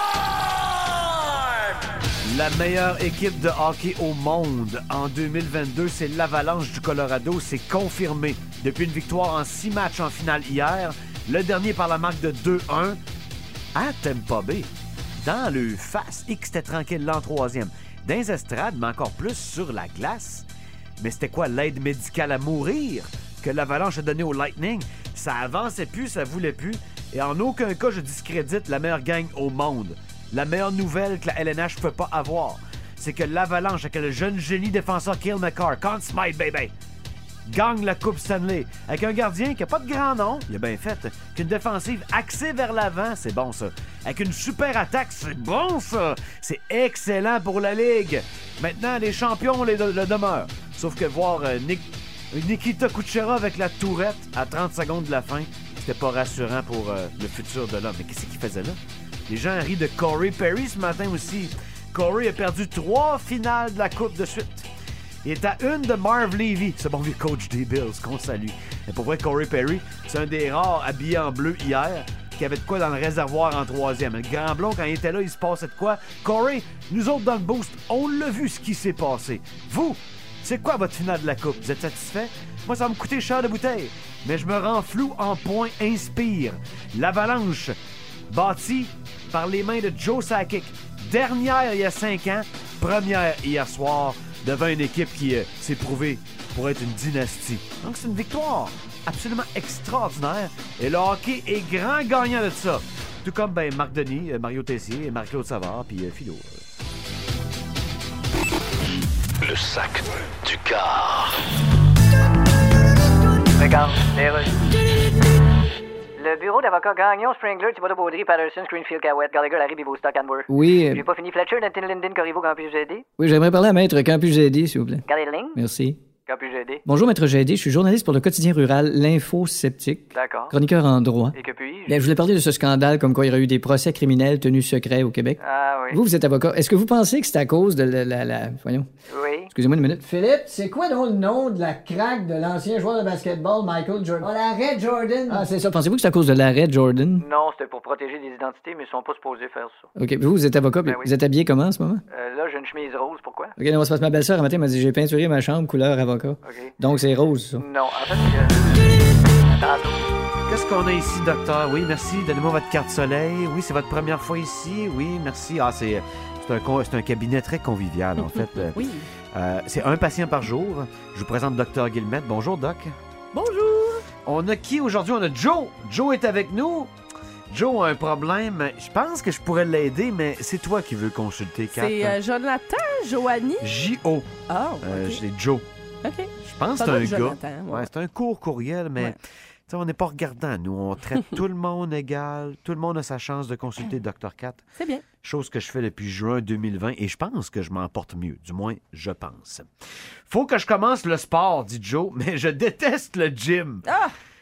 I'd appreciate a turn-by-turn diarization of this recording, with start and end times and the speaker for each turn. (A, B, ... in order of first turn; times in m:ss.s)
0:02.2-0:13.0 A
0:13.7-0:20.5 A
0:21.0-0:36.7 A
0:37.4-1:04.7 A
1:05.2-1:27.8 A
1:28.3-1:46.6 A
1:53.6-1:54.6 B
1:56.2-2:03.0 B
2:00.5-2:01.0 C
2:03.2-2:05.0 C
2:05.1-2:05.6 B
2:05.5-2:06.0 C
2:06.2-2:06.8 B
2:06.8-2:11.4 C
2:10.1-2:10.5 B
2:11.3-2:12.0 B
2:11.9-2:15.4 C
2:15.4-2:16.0 B
2:15.9-2:18.9 C
2:19.1-2:19.5 B
2:19.5-2:20.0 C
2:20.0-2:25.7 D
2:25.3-2:27.2 C
2:27.2-2:29.9 B
2:30.0-2:32.0 C
2:30.8-2:31.1 B
2:32.1-2:33.5 B
2:33.6-2:37.6 C
2:36.4-2:36.7 B
2:37.6-2:38.8 B
2:39.5-2:40.0 B
2:40.5-2:48.8 A
2:48.7-2:49.0 E
2:49.3-2:52.9 A
2:53.3-2:54.0 E
2:54.2-2:56.9 A
2:57.5-3:02.2 A
3:01.7-3:03.8 E
3:03.6-3:04.3 A
3:04.5-3:05.2 E
3:04.8-3:05.6 A
3:06.0-3:07.9 E
3:06.4-3:14.6 A
3:14.8-3:15.0 E
3:15.2-3:19.7 A
3:20.3-3:23.8 A
3:23.8-3:24.1 E